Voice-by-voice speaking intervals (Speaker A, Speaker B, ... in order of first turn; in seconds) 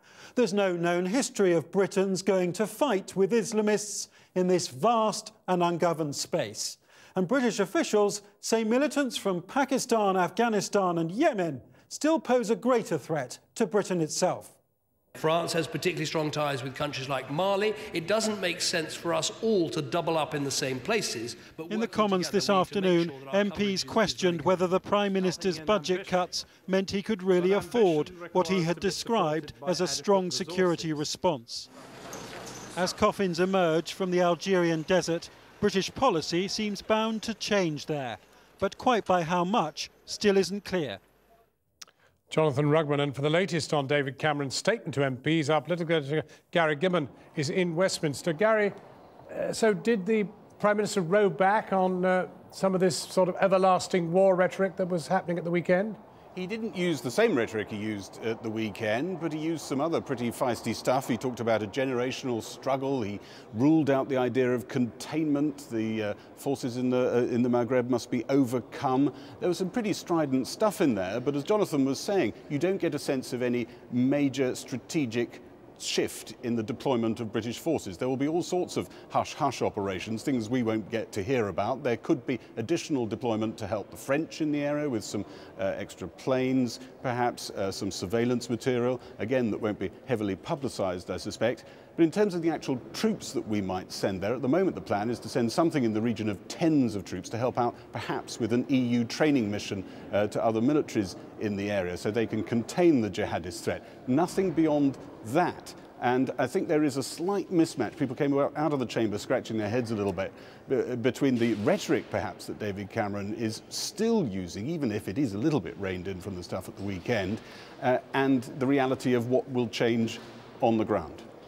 Speaker A: 0.3-14.5, 21.7-31.7, 32.8-41.0
Speaker B: 15.2-24.6
Speaker C: 27.4-30.8, 42.3-48.8, 49.3-56.0
Speaker D: 56.3-121.2